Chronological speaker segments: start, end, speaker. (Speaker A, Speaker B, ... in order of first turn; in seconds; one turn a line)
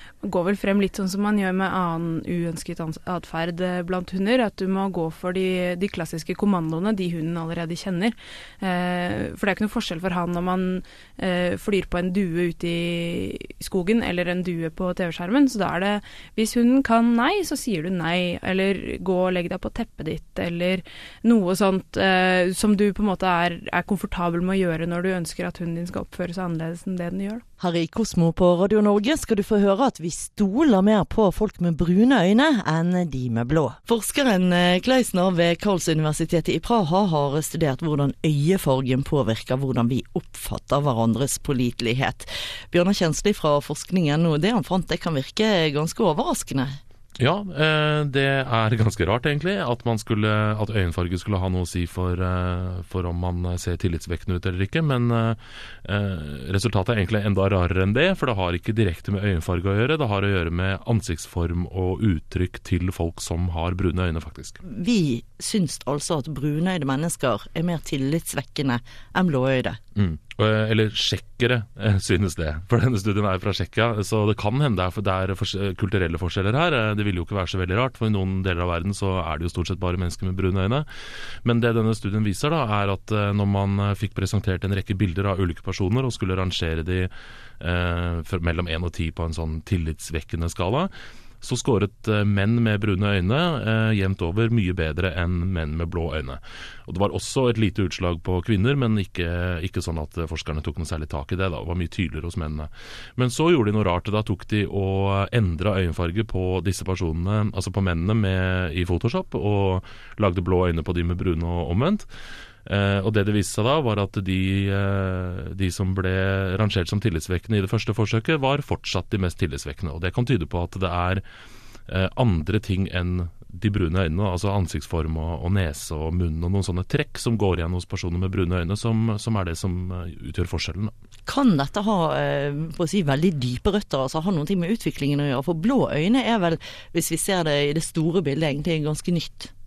Speaker A: 0.2-27.4
Speaker B: 27.6-46.8
Speaker C: 47.2-64.6
Speaker B: 64.6-69.8
Speaker C: 70.0-80.9
Speaker C: 81.4-112.1
Speaker C: 112.7-121.2
Speaker C: 121.9-130.9
Speaker B: 131.3-139.5